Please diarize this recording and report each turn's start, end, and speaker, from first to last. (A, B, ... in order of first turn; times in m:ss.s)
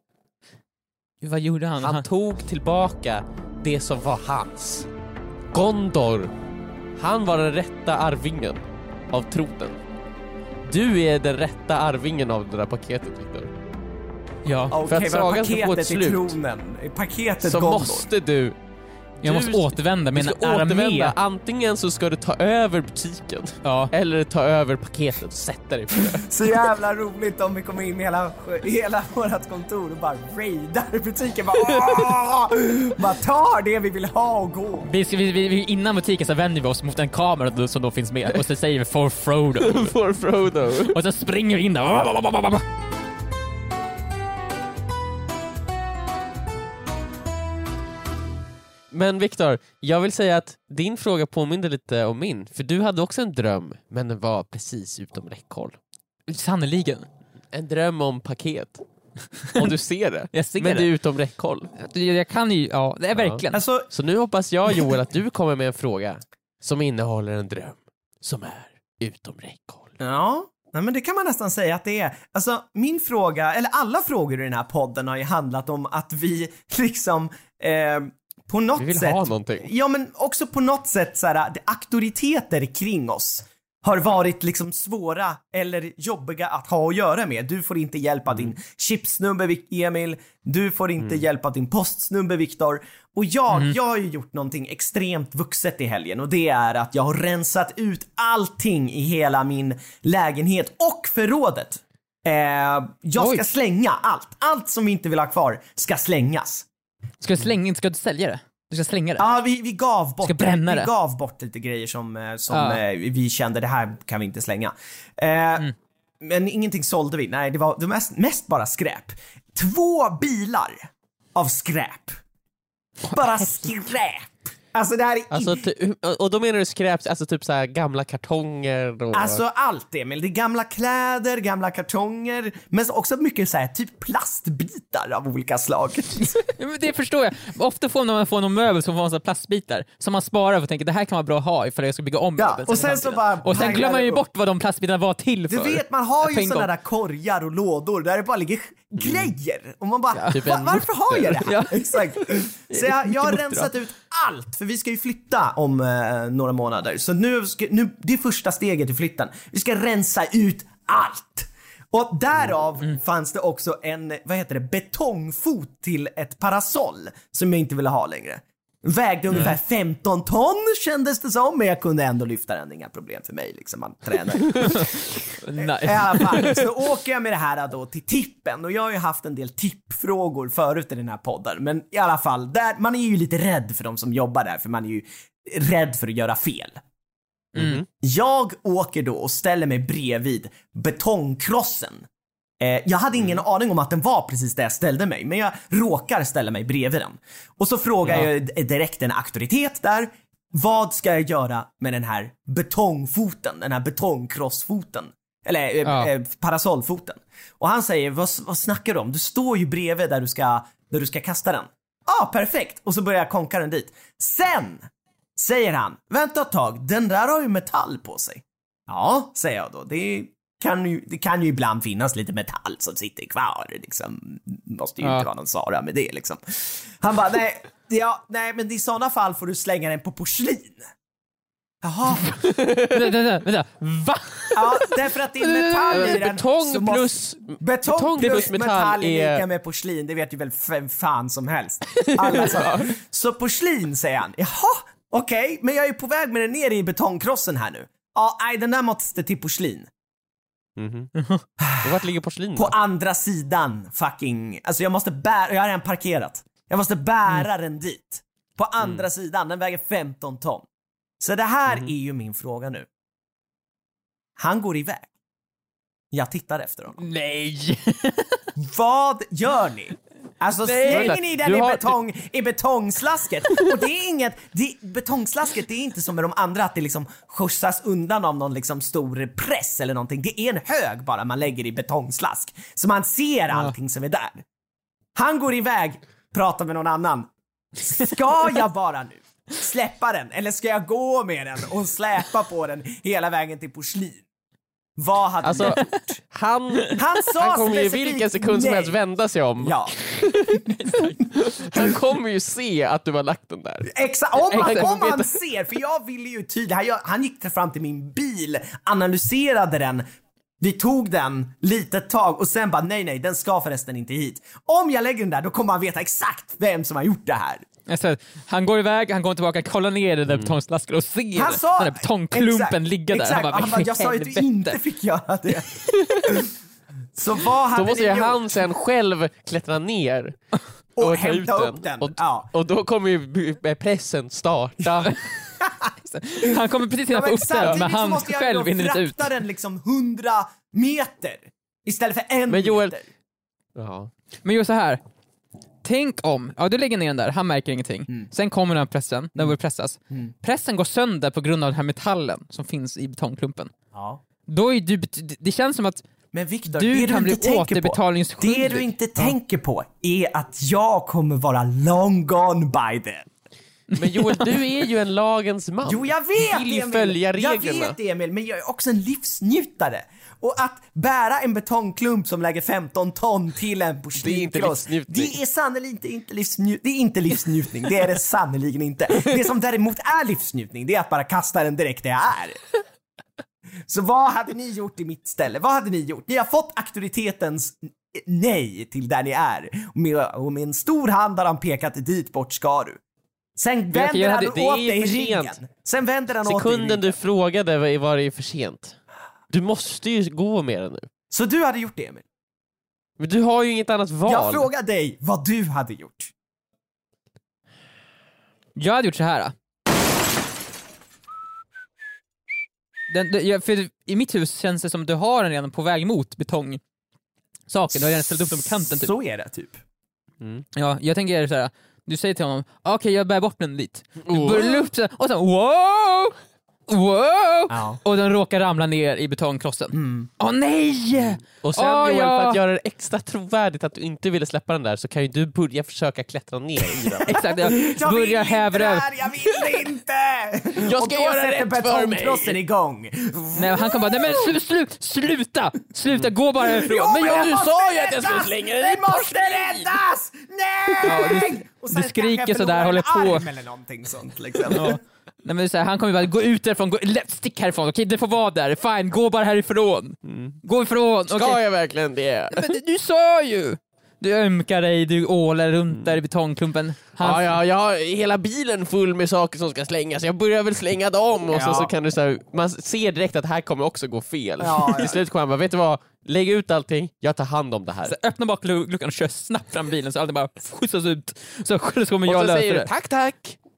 0:01.2-0:02.1 A
0:01.8-0:04.9 B
0:05.5-0:06.3 B
0:07.0-0:09.8 B
0:10.7-0:13.5 B
0:14.4-0:14.8 A
0:14.7-0:18.1 C
0:14.8-0:16.4 B
0:17.4-0:18.6 B
0:19.2-0:26.3 B
0:19.2-0:21.2 A
0:23.6-0:23.9 A
0:26.0-0:34.9 C
0:31.7-0:32.0 B
0:34.8-0:39.9 A
0:39.6-0:41.0 B
0:40.9-0:42.6 A
0:48.9-0:55.8 B
0:56.3-0:57.1 A
0:57.5-0:58.8 B
0:59.6-1:01.7 B
1:00.3-1:00.9 A
1:01.8-1:03.6 A
1:03.2-1:09.9 B
1:03.5-1:03.9 C
1:10.0-1:46.7 C
1:18.8-1:19.7 B
1:43.2-1:43.4 A
1:47.2-1:49.3 A
1:49.2-2:02.2 C
1:50.2-1:50.9 A
1:52.5-1:52.8 A
2:03.1-2:05.6 C
2:03.1-2:03.4 A
2:05.3-2:09.4 B
2:09.1-2:16.5 C
2:16.6-2:26.7 A
2:22.4-2:24.2 C
2:25.5-2:55.0 C
2:30.1-2:30.4 A
2:30.3-2:31.5 B
2:31.4-2:33.7 A
2:54.6-2:56.6 A
2:55.6-3:06.8 C
3:07.6-3:07.8 B
3:07.9-3:12.0 C
3:12.6-3:50.8 C
3:25.8-3:26.1 A
3:45.0-3:45.3 A
3:51.8-3:52.4 C
3:52.6-3:52.9 B
3:52.8-3:56.2 A
3:54.5-4:09.9 C
3:55.9-3:59.4 B
4:02.0-4:02.5 A
4:02.4-4:02.8 B
4:10.8-4:11.1 B
4:11.2-4:11.4 A
4:11.6-4:12.0 C
4:11.8-4:12.7 B
4:12.6-4:20.6 C
4:18.8-4:19.1 B
4:21.2-4:22.9 C
4:24.4-4:25.1 C
4:26.1-4:27.0 C
4:27.0-4:28.5 A
4:28.6-4:44.4 C
4:30.6-4:31.2 A
4:30.9-4:31.9 B
4:45.2-4:54.2 C
4:55.0-4:56.2 C
4:55.4-4:59.8 B
4:56.9-4:59.0 C
4:59.6-5:00.1 C
5:00.6-5:01.2 A
5:01.4-5:03.9 B
5:03.9-5:10.0 C
5:04.5-5:04.9 A
5:04.5-5:05.3 B
5:10.6-5:17.7 C
5:17.9-5:24.8 A
5:21.4-5:26.5 C
5:27.2-5:28.4 C
5:27.8-5:30.4 B
5:31.0-5:32.5 C
5:31.0-5:35.1 B
5:35.6-5:35.9 C
5:36.0-5:39.3 A
5:37.1-5:43.1 C
5:42.5-5:43.0 B
5:43.8-5:44.1 B
5:44.4-5:45.0 A
5:45.8-5:53.7 A
5:53.9-5:54.2 C
5:54.5-5:56.0 A
5:56.3-6:03.3 C
5:56.7-5:59.3 A
6:03.9-6:04.4 A
6:04.0-6:08.0 B
6:05.9-6:22.6 C
6:14.2-6:15.4 B
6:23.9-6:33.0 C
6:33.6-6:37.0 C
6:34.0-6:35.6 B
6:34.2-6:34.5 A
6:36.4-6:39.0 B
6:39.5-6:41.1 B
6:41.3-6:42.2 C
6:43.2-6:44.7 B
6:44.3-6:46.3 C
6:48.8-6:49.5 A
6:53.1-6:56.8 A
6:57.7-6:59.1 A
6:58.9-6:59.8 C
7:00.7-7:06.4 A
7:04.2-7:04.9 B
7:06.9-7:12.6 A
7:07.7-7:08.0 C
7:09.9-7:10.3 C
7:11.4-7:17.4 B
7:17.0-7:24.4 C
7:17.3-7:19.1 A
7:20.8-7:22.6 B
7:23.5-7:27.6 A
7:26.7-7:35.0 C
7:27.1-7:29.9 B
7:31.0-7:33.5 A
7:34.7-7:41.6 A
7:40.2-7:40.6 B
7:41.3-7:42.7 B
7:42.5-7:47.6 A
7:47.2-7:58.2 B
7:51.5-7:51.9 C
7:54.6-7:55.2 C
7:58.1-8:02.9 A
8:02.3-8:03.6 B